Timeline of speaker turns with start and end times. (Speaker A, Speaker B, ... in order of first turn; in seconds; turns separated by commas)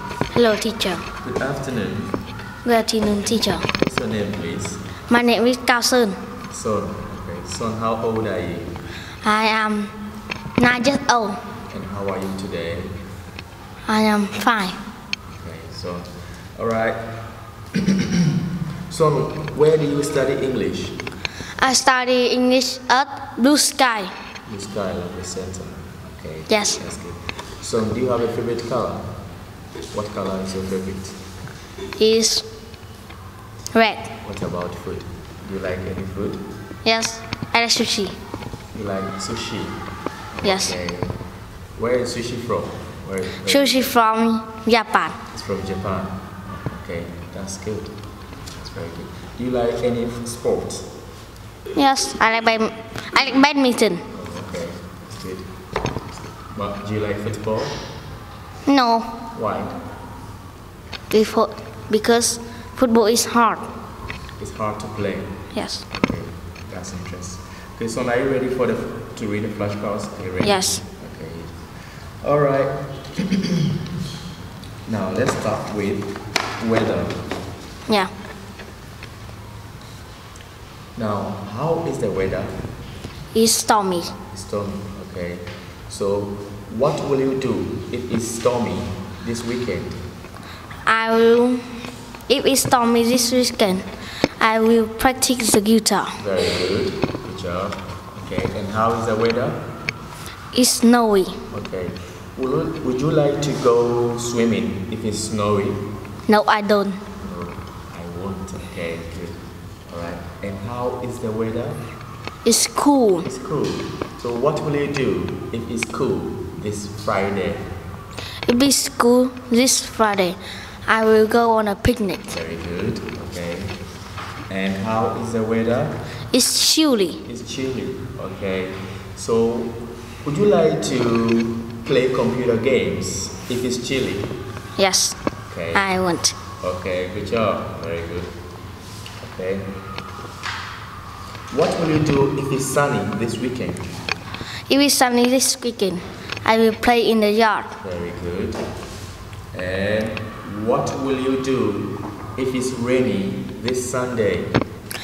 Speaker A: 0.3-1.1, Speaker B: 1.2-2.2, Speaker A: 2.6-3.7, Speaker B: 3.7-4.8, Speaker A: 5.1-6.2, Speaker B: 6.5-8.7, Speaker A: 9.2-9.9, Speaker A: 10.6-11.4, Speaker B: 11.7-12.9, Speaker A: 13.9-14.8, Speaker B: 15.3-17.0, Speaker B: 17.8-18.1, Speaker B: 18.9-21.0, Speaker A: 21.6-24.1, Speaker B: 24.5-29.1, Speaker A: 26.5-26.8, Speaker B: 29.9-31.2, Speaker A: 32.0-32.5, Speaker A: 33.7-34.1, Speaker B: 34.2-36.4, Speaker A: 36.9-38.2, Speaker B: 38.7-39.8, Speaker B: 40.3-41.1, Speaker A: 40.4-40.8, Speaker B: 41.8-43.9, Speaker A: 43.4-45.2, Speaker B: 45.3-47.9, Speaker B: 48.6-50.9, Speaker A: 51.8-54.1, Speaker B: 54.1-55.5, Speaker B: 56.5-57.8, Speaker A: 58.6-59.2, Speaker B: 59.3-59.8, Speaker A: 61.1-63.7, Speaker B: 64.4-65.3, Speaker A: 65.5-65.8, Speaker B: 65.9-73.7, Speaker A: 70.4-70.8, Speaker B: 74.9-77.2, Speaker B: 81.0-82.5, Speaker A: 83.3-84.1, Speaker B: 84.2-90.0, Speaker A: 90.9-91.7, Speaker A: 92.3-93.9, Speaker A: 94.4-96.2, Speaker B: 96.2-99.6, Speaker A: 100.5-101.4, Speaker B: 101.5-105.8, Speaker A: 106.3-107.0, Speaker B: 107.2-111.8, Speaker A: 112.5-113.3, Speaker B: 113.2-117.7, Speaker A: 118.5-122.3, Speaker B: 122.3-123.7, Speaker B: 124.5-126.0, Speaker A: 126.3-127.2, Speaker B: 127.2-134.3, Speaker A: 134.8-135.2, Speaker B: 135.5-135.9, Speaker A: 135.7-136.4, Speaker B: 136.6-138.3, Speaker B: 139.2-139.7, Speaker B: 141.5-143.9, Speaker A: 144.7-147.8, Speaker B: 147.8-148.6, Speaker B: 149.5-154.5